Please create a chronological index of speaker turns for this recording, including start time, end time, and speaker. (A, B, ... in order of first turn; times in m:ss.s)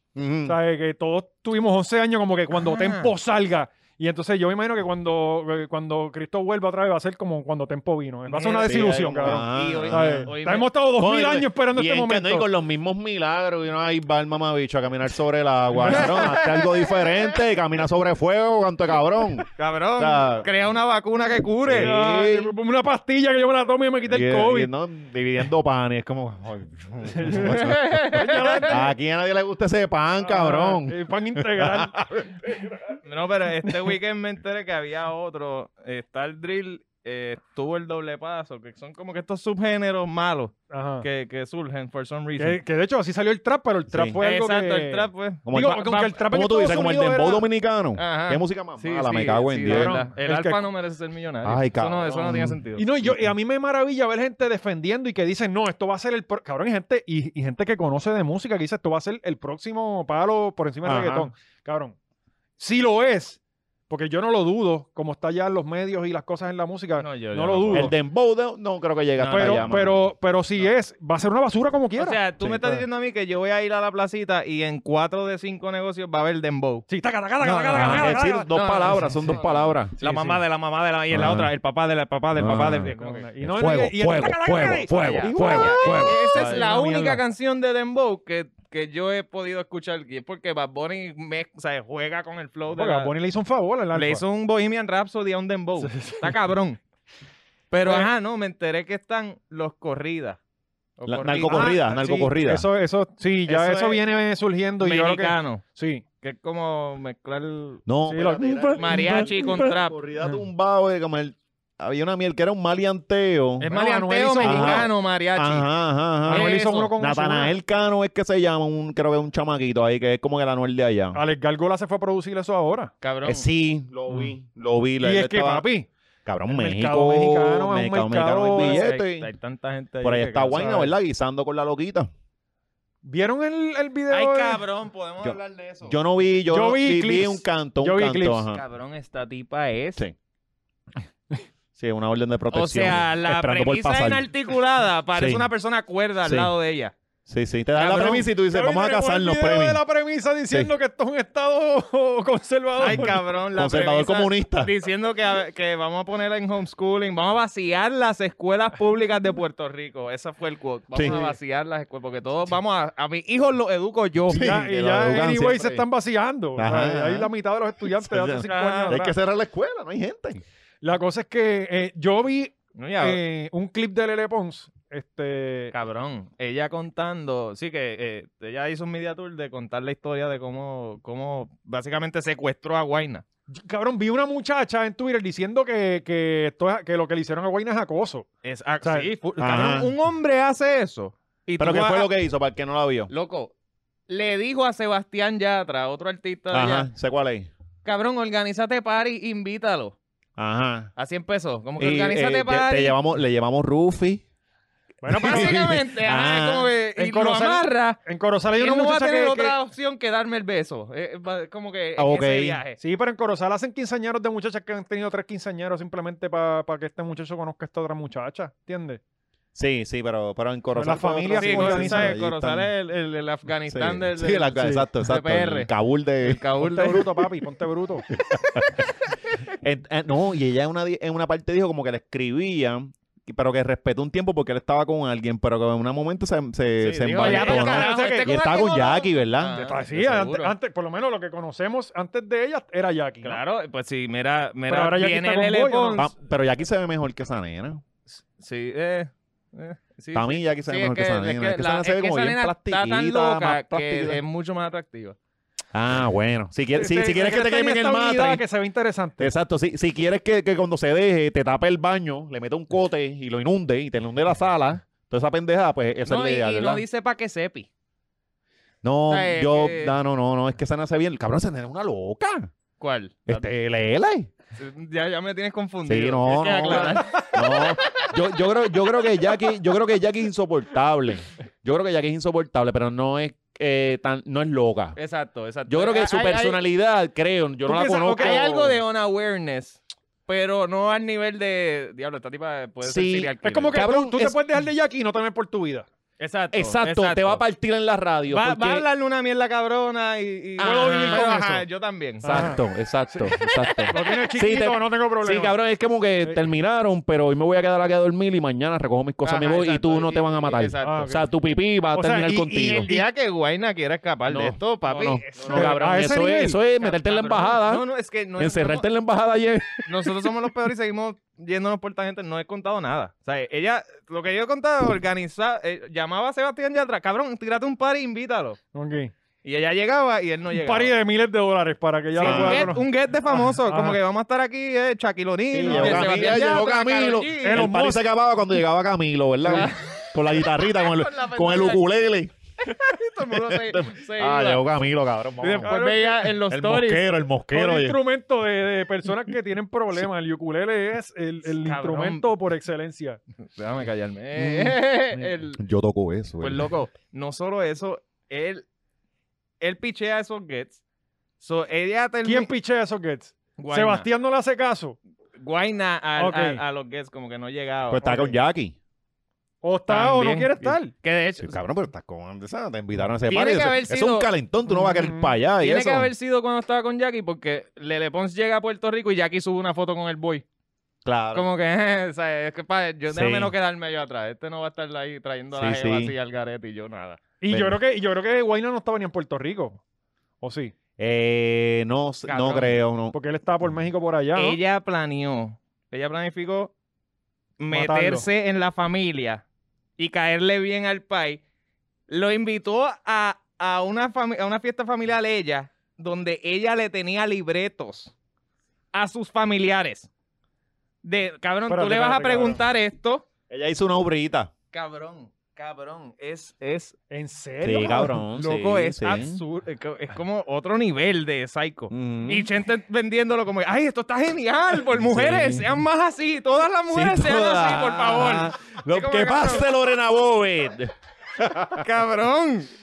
0:00.1-0:00.6 A
0:00.4-0:12.5 B
0:02.5-0:03.1 C
0:08.3-0:10.7 C
0:08.6-0:10.3 A
0:10.9-0:20.5 A
0:15.8-0:17.3 C
0:19.5-0:21.9 C
0:21.6-0:22.5 A
0:21.8-0:24.7 B
0:24.1-0:28.0 A
0:27.1-0:28.8 B
0:27.4-0:28.8 C
0:28.7-0:32.8 A
0:30.2-0:32.0 B
0:33.0-0:42.6 C
0:40.7-0:41.0 B
0:42.4-0:47.4 B
0:43.9-0:44.2 A
0:44.2-0:46.1 C
0:45.4-0:50.0 A
0:48.0-0:52.9 C
0:49.6-0:50.6 B
0:51.4-0:53.3 A
0:52.8-1:01.9 B
1:00.8-1:01.3 A
1:02.6-1:07.9 B
1:07.0-1:07.9 C
1:07.7-1:10.0 A
1:09.2-1:09.7 C
1:09.3-1:12.2 B
1:12.0-1:16.8 C
1:12.4-1:12.8 A
1:16.9-1:18.5 B
1:17.4-1:19.9 A
1:17.5-1:23.2 C
1:20.0-1:20.4 B
1:21.1-1:21.5 A
1:22.4-1:22.9 A
1:22.8-1:27.2 B
1:23.4-1:26.2 A
1:24.8-1:33.1 C
1:32.7-1:34.2 B
1:33.9-1:36.8 C
1:35.8-1:36.3 B
1:37.7-1:40.4 C
1:37.8-1:38.1 B
1:41.0-1:41.8 C
1:41.1-1:42.6 A
1:41.4-1:46.0 B
1:43.5-1:44.0 C
1:44.8-1:45.6 C
1:46.2-1:47.8 C
1:47.9-1:53.7 A
1:48.1-1:49.6 B
1:48.8-1:49.9 C
1:53.6-1:55.7 C
1:53.6-1:54.9 B
1:54.4-2:01.2 A
1:56.2-1:57.5 B
1:56.3-1:56.9 C
2:01.1-2:02.9 B
2:03.0-2:03.4 C
2:03.2-2:05.6 A
2:05.0-2:05.9 B
2:06.2-2:09.3 A
2:06.5-2:08.8 B
2:08.5-2:10.9 C
2:10.0-2:12.1 A
2:10.5-2:10.9 B
2:13.0-2:14.6 B
2:14.1-2:16.0 C
2:15.2-2:18.6 A
2:16.5-2:18.4 B
2:18.5-2:20.0 C
2:21.8-2:24.3 A
2:22.5-2:26.9 C
2:25.1-2:25.5 A
2:26.2-2:26.5 A
2:27.3-2:29.8 A
2:27.8-2:28.3 C
2:28.5-2:33.2 B
2:32.8-2:44.5 C
2:33.5-2:34.7 A
2:40.9-2:41.2 A
2:41.0-2:41.3 B
2:44.3-2:45.8 A
2:44.3-2:49.1 B
2:46.6-2:47.3 A
2:48.0-2:50.4 A
2:48.4-2:49.0 C
2:50.8-2:55.7 B
2:52.8-2:53.2 C
2:55.7-3:03.2 C
3:03.5-3:08.3 B
3:08.4-3:12.1 C
3:08.8-3:09.1 B
3:09.4-3:09.9 A
3:11.6-3:13.1 A
3:13.1-3:13.5 C
3:14.1-3:16.9 C
3:16.5-3:17.5 A
3:17.8-3:20.0 C
3:20.4-3:20.9 A
3:21.0-3:23.0 C
3:21.8-3:24.2 A
3:25.0-3:25.7 B
3:25.1-3:26.7 A
3:25.2-3:28.0 C
3:27.0-3:29.6 B
3:28.6-3:32.8 C
3:32.0-3:32.6 A
3:32.8-3:39.0 B
3:39.5-3:42.7 A
3:40.7-3:42.2 B
3:41.3-3:47.2 C
3:43.7-3:46.4 A
3:44.6-3:44.8 B
3:46.6-3:48.0 B
3:48.1-3:48.8 A
3:49.5-3:59.6 A
3:56.8-4:00.5 C
3:57.2-3:58.4 B
3:59.5-4:03.4 B
4:03.2-4:06.1 C
4:04.7-4:06.0 B
4:06.0-4:07.8 A
4:08.4-4:15.2 C
4:10.1-4:14.2 A
4:15.7-4:18.4 A
4:16.7-4:19.3 B
4:19.2-4:26.8 A
4:26.0-4:27.7 C
4:28.8-4:32.5 A
4:29.1-4:29.9 C
4:32.8-4:33.4 C
4:33.3-4:34.3 A
4:34.5-4:38.0 C
4:35.8-4:45.0 A
4:36.7-4:37.3 B
4:45.0-4:46.6 C
4:45.7-4:48.8 A
4:47.7-4:48.4 B
4:47.8-4:53.8 C
4:52.8-4:54.4 A
4:53.4-4:55.9 B
4:56.2-4:57.4 C
4:56.5-4:58.8 A
4:58.3-5:02.5 C
5:00.6-5:01.4 A
5:00.6-5:01.6 B
5:02.2-5:03.4 B
5:02.2-5:12.9 A
5:03.4-5:04.1 C
5:03.9-5:05.6 B
5:09.2-5:11.2 C
5:10.8-5:11.2 B
5:11.9-5:13.0 B
5:12.6-5:16.0 C
5:14.3-5:17.8 A
5:15.5-5:16.6 B
5:16.8-5:18.8 C
5:18.4-5:20.4 A
5:19.8-5:28.6 C
5:28.7-5:29.1 B
5:29.4-5:30.9 C
5:30.6-5:34.0 B
5:32.1-5:37.7 C
5:32.2-5:32.7 A
5:35.5-5:42.3 A
5:35.7-5:36.2 B
5:37.4-5:38.0 B
5:39.4-5:41.8 C
5:42.6-5:44.6 C
5:43.2-5:45.8 A
5:45.4-5:47.0 C
5:45.6-5:46.3 B
5:46.5-5:48.0 A
5:47.5-5:53.2 B
5:51.5-5:52.3 C
5:53.5-5:55.6 C
5:54.4-5:54.8 A
5:55.6-5:56.7 A
5:56.4-5:58.6 C
5:59.6-6:00.8 C
6:01.4-6:02.5 C
6:02.2-6:05.0 B
6:03.6-6:04.1 C
6:05.4-6:08.3 C
6:06.2-6:06.6 B
6:07.9-6:08.8 A
6:09.6-6:10.9 B
6:09.9-6:11.6 C
6:11.4-6:16.1 A
6:13.2-6:14.3 C
6:14.9-6:20.4 C
6:15.0-6:15.3 B
6:21.0-6:21.5 A
6:21.3-6:27.2 C
6:23.1-6:23.5 A
6:25.5-6:26.1 A
6:27.4-6:29.8 B
6:27.5-6:27.8 A
6:30.4-6:30.7 B
6:31.0-6:33.1 A
6:32.3-6:32.8 C
6:33.1-6:34.6 B
6:34.3-6:36.7 C
6:37.6-6:39.4 C
6:37.7-6:38.2 B
6:40.0-6:41.4 C
6:42.1-6:48.1 C
6:48.9-6:50.1 C
6:51.0-6:53.2 C
6:51.7-6:52.6 B
6:53.5-6:54.5 A
6:54.7-6:57.0 C
6:57.1-6:58.2 B
6:57.6-6:59.4 A
6:58.4-7:09.7 C
7:01.9-7:02.5 A
7:04.8-7:05.8 A
7:06.9-7:11.9 A
7:11.7-7:12.7 C